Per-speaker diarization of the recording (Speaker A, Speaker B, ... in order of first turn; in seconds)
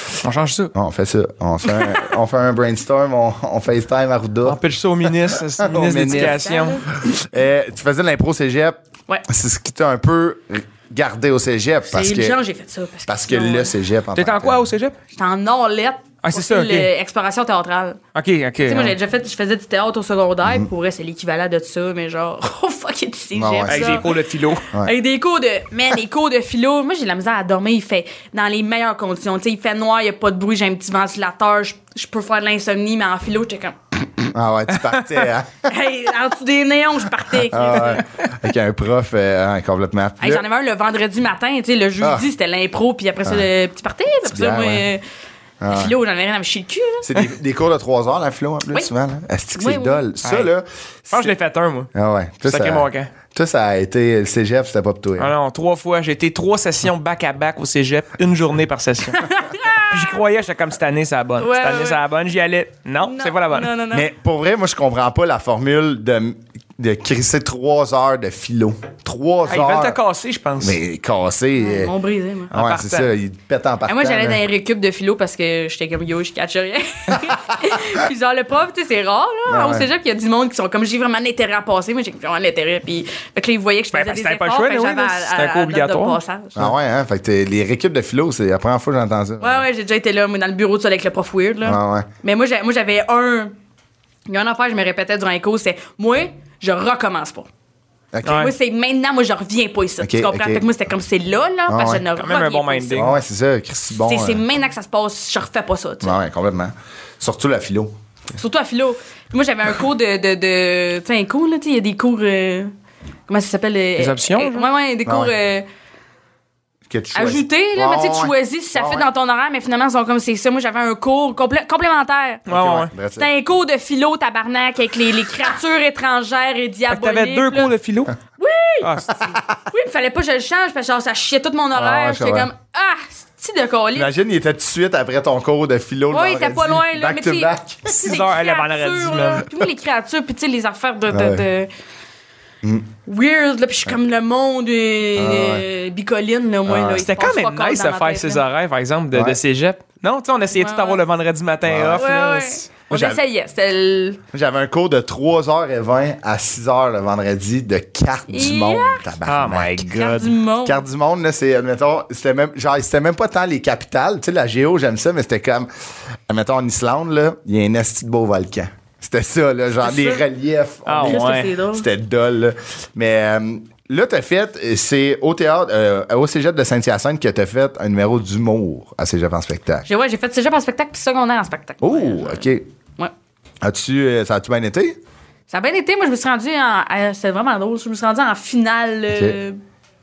Speaker A: 0.2-0.7, 4.5-6.8, 14.2-15.0, 16.2-16.9, 18.1-19.0, 23.7-24.6, 50.2-50.5, 51.1-51.9, 52.5-53.1, 55.2-59.2, 59.8-63.8, 69.5-70.8, 72.5-73.1, 83.9-86.2, 98.2-98.5, 102.2-103.1, 114.0-114.7, 122.5-122.9, 126.9-128.1, 128.8-129.2, 137.9-139.5, 147.0-152.7, 159.3-160.3, 170.9-171.5
Speaker B: 0.7-4.6, 5.3-6.5, 7.0-12.4, 13.1-14.7, 23.3-24.1, 34.2-35.7, 37.4-40.4, 44.3-44.9, 45.6-45.9, 47.0-51.4, 51.9-55.3, 63.9-70.0, 70.6-71.9, 72.5-74.4, 79.5-79.9, 86.6-89.6, 91.7-92.1, 98.1-98.5, 100.0-100.7, 101.7-102.0, 102.9-104.4, 106.0-108.0, 115.1-115.3, 116.9-119.1, 122.5-123.3, 129.2-129.5, 131.8-132.5, 133.9-138.1, 141.1-141.4, 142.6-142.9, 145.2-145.7, 146.7-147.0, 149.1-149.4, 151.7-152.1, 152.9-153.2, 154.3-159.9, 160.6-165.7, 166.3-179.9, 181.8-182.7, 183.6-185.0
Speaker C: 5.9-6.9, 11.9-13.7, 15.2-18.0, 18.6-24.1, 24.7-33.8, 35.7-38.0, 40.2-45.0, 45.7-47.1, 49.6-50.0, 59.1-60.1, 61.4-62.0, 63.1-64.1, 71.6-72.5, 73.9-86.7, 89.4-93.5, 94.3-97.5, 98.3-103.1, 104.0-106.2, 108.4-112.7, 113.3-115.7, 117.1-122.5, 123.2-127.7, 128.4-128.9, 129.7-134.1, 136.1-141.7, 143.1-148.4, 150.6-151.0, 152.0-154.2, 158.3-159.1, 159.9-160.8, 169.8-170.2, 171.0-171.9, 179.9-183.1, 185.5-189.6